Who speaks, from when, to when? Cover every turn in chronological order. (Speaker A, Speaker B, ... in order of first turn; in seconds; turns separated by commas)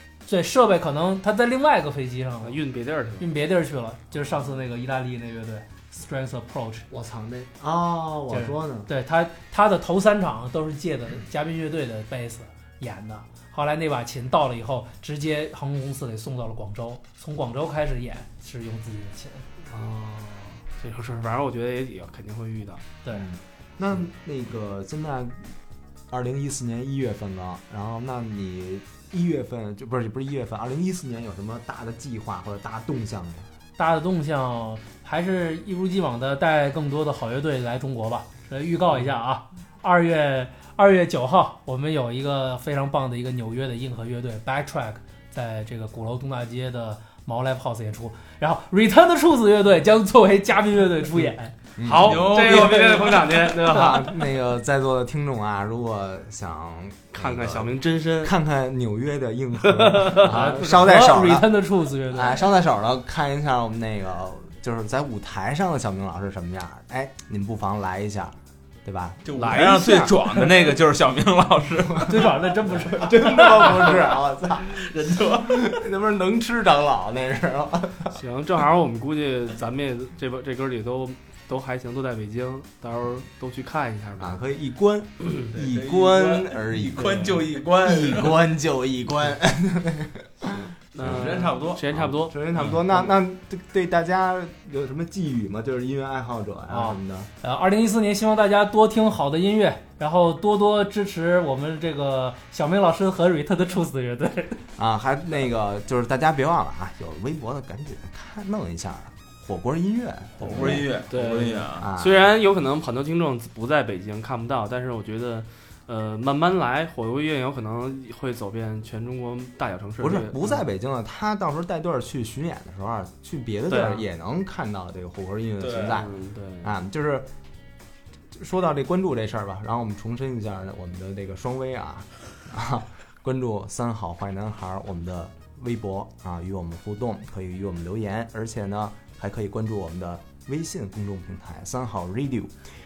Speaker A: 0.2-2.6, Speaker B: 2.4-3.3, Speaker A: 3.2-6.9, Speaker C: 6.9-8.9, Speaker A: 8.3-19.5, Speaker B: 19.7-22.8, Speaker C: 23.1-25.6, Speaker C: 26.1-33.5, Speaker A: 33.8-51.5, Speaker C: 51.8-52.6, Speaker B: 51.8-54.4, Speaker D: 52.0-53.3, Speaker C: 53.5-61.5, Speaker B: 57.1-58.3, Speaker B: 59.6-60.4, Speaker A: 60.2-62.5, Speaker C: 62.1-69.2, Speaker D: 69.2-72.4, Speaker B: 69.3-70.4, Speaker A: 72.0-73.8, Speaker C: 72.7-78.2, Speaker D: 74.6-75.8, Speaker B: 78.1-84.4, Speaker C: 84.2-97.3, Speaker D: 85.5-88.4, Speaker B: 90.5-93.1, Speaker D: 91.0-91.8, Speaker A: 96.7-104.6, Speaker C: 104.8-110.8, Speaker D: 110.4-111.9, Speaker B: 110.5-120.6, Speaker C: 111.8-112.2, Speaker C: 120.0-126.1, Speaker B: 123.7-124.0, Speaker D: 125.6-126.0, Speaker B: 125.9-126.7, Speaker C: 126.6-127.3, Speaker C: 128.3-142.6